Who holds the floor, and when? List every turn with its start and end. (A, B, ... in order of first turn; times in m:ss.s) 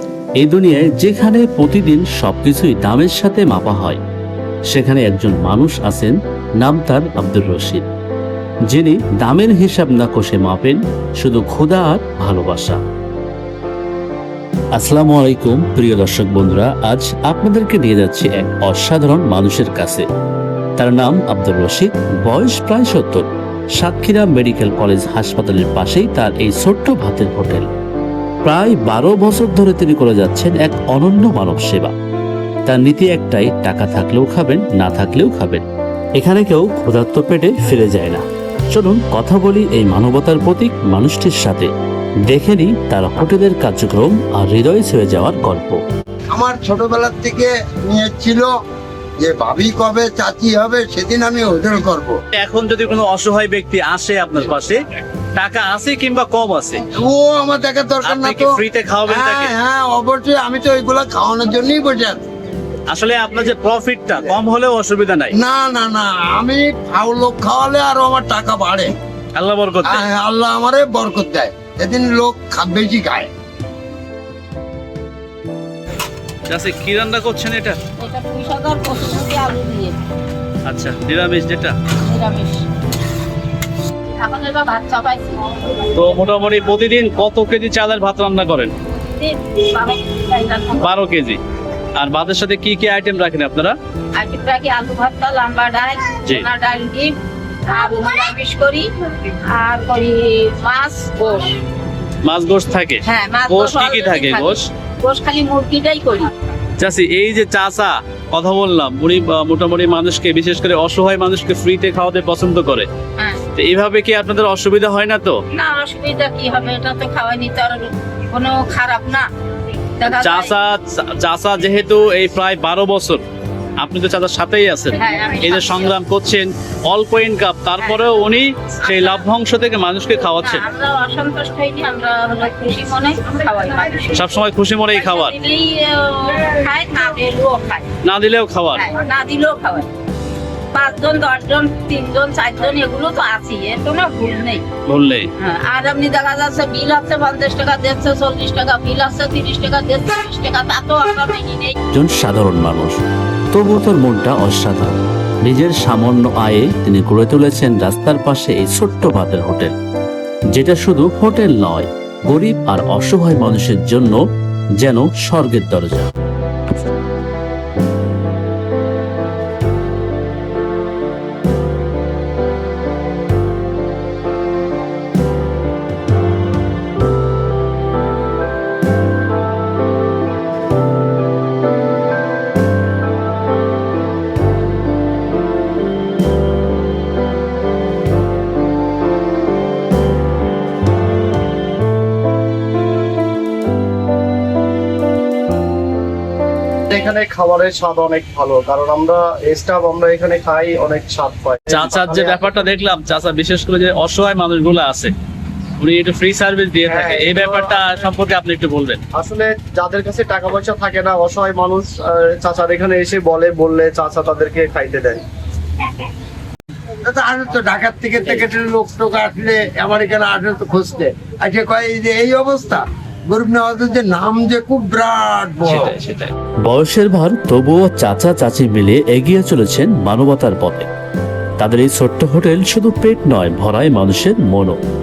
0:00.4-0:04.0 A
0:04.7-0:07.9 A
0:08.7-0:12.8 A
0:14.7-0:20.0 A
0:20.8-0:27.7 A
0:28.4-0:31.9 A
0:32.6-0:35.6 A
0:36.2-0:41.7 A
0:42.3-0:45.8 A
0:46.3-0:48.5 B
0:49.2-0:52.2 B
0:52.4-0:54.8 C
0:55.3-0:56.8 C
0:56.9-1:02.2 B
0:58.0-0:59.5 C
1:02.9-1:05.3 C
1:05.3-1:08.9 B
1:09.4-1:10.0 C
1:09.8-1:13.3 B
1:16.5-1:17.8 C
1:18.0-1:20.0 D
1:20.7-1:21.8 C
1:22.0-1:22.6 D
1:24.2-1:26.2 D
1:25.9-1:28.7 C
1:28.8-1:31.0 D
1:30.8-1:31.4 C
1:32.0-1:33.8 C
1:34.2-1:37.2 D
1:37.7-1:41.6 D
1:42.2-1:44.6 C
1:43.0-1:46.3 D
1:46.8-1:52.9 C
1:53.2-1:53.4 D
1:53.5-1:55.4 C
1:55.5-1:59.3 D
2:00.0-2:00.5 D
2:00.1-2:03.2 C
2:03.8-2:10.6 C
2:05.0-2:05.9 D
2:07.8-2:08.2 D
2:08.8-2:09.2 D
2:10.4-2:14.4 D
2:14.2-2:15.3 C
2:14.9-2:17.9 D
2:18.0-2:18.8 C
2:18.7-2:19.9 D
2:20.7-2:24.6 D
2:24.9-2:25.3 C
2:25.4-2:31.8 D
2:31.9-2:33.0 A
2:33.5-2:39.7 A
2:40.5-2:44.2 A
2:44.8-2:46.1 A
3:16.9-3:22.6 E
3:21.7-3:25.1 C
3:25.8-3:29.0 C
3:26.8-3:28.1 E
3:29.1-3:35.2 E
3:37.0-3:46.0 B
3:45.7-3:46.3 C
3:46.6-3:50.9 A
3:51.6-3:54.8 A